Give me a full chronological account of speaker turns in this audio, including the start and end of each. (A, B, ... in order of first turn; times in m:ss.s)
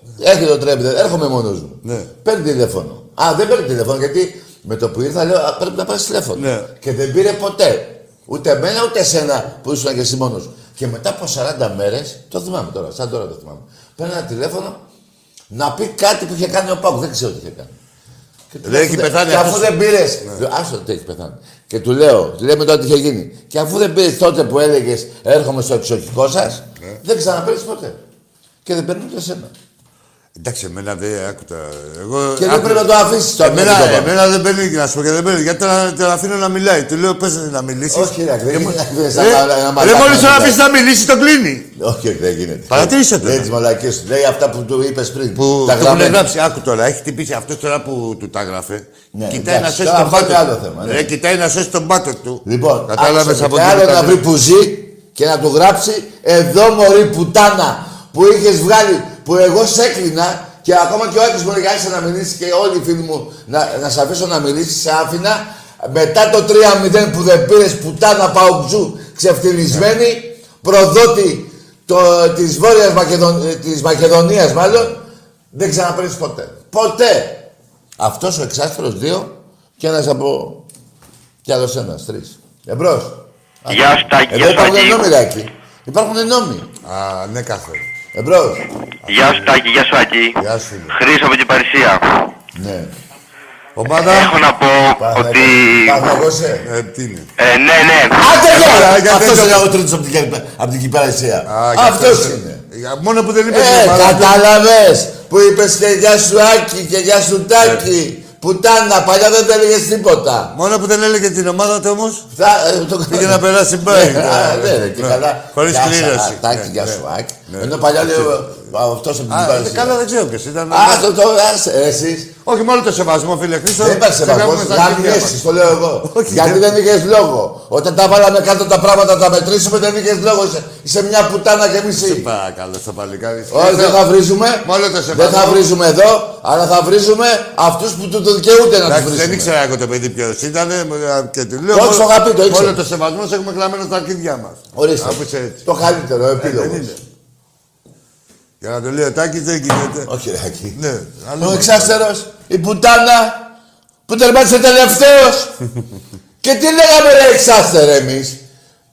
0:00.2-0:14.8 A
0:01.8-0:02.1 B
0:06.4-0:06.7 B
0:15.5-0:17.7 A
0:18.5-0:28.0 A
0:18.6-0:20.4 B
0:28.6-0:29.5 A
0:30.4-0:41.7 B
0:32.4-0:34.1 A
0:37.9-0:40.6 A
0:41.8-0:46.2 A
0:42.7-0:43.5 B
0:45.4-0:54.2 B
0:49.1-0:51.1 A
0:52.4-1:15.0 A
1:15.5-1:20.6 A
1:21.4-1:26.7 A
1:23.7-1:25.0 C
1:26.8-1:27.9 B
1:28.1-1:28.7 A
1:29.0-1:29.5 B
1:29.1-1:30.4 C
1:30.4-1:31.0 B
1:30.9-1:32.0 C
1:32.5-1:32.9 A
1:33.8-1:34.3 B
1:34.0-1:36.0 C
1:35.0-1:36.6 A
1:36.6-1:37.3 B
1:37.4-1:38.2 C
1:38.1-1:42.6 A
1:38.5-1:39.6 B
1:41.5-1:44.4 B
1:43.5-1:50.5 A
1:47.6-1:47.8 B
1:50.5-1:52.3 B
1:52.3-2:00.0 A
1:53.1-1:58.7 B
1:59.3-2:01.1 B
2:00.7-2:02.3 A
2:02.4-2:05.4 B
2:03.8-2:12.3 A
2:06.0-2:06.6 B
2:12.0-2:14.0 B
2:13.5-2:19.5 A
2:14.6-2:15.6 B
2:18.8-2:25.6 B
2:21.7-2:22.8 A
2:24.7-2:27.0 A
2:26.4-2:27.0 B
2:28.6-2:30.1 B
2:30.0-2:30.8 A
2:30.7-2:32.0 B
2:31.4-2:33.5 A
2:34.1-2:35.5 A
2:36.4-2:38.4 A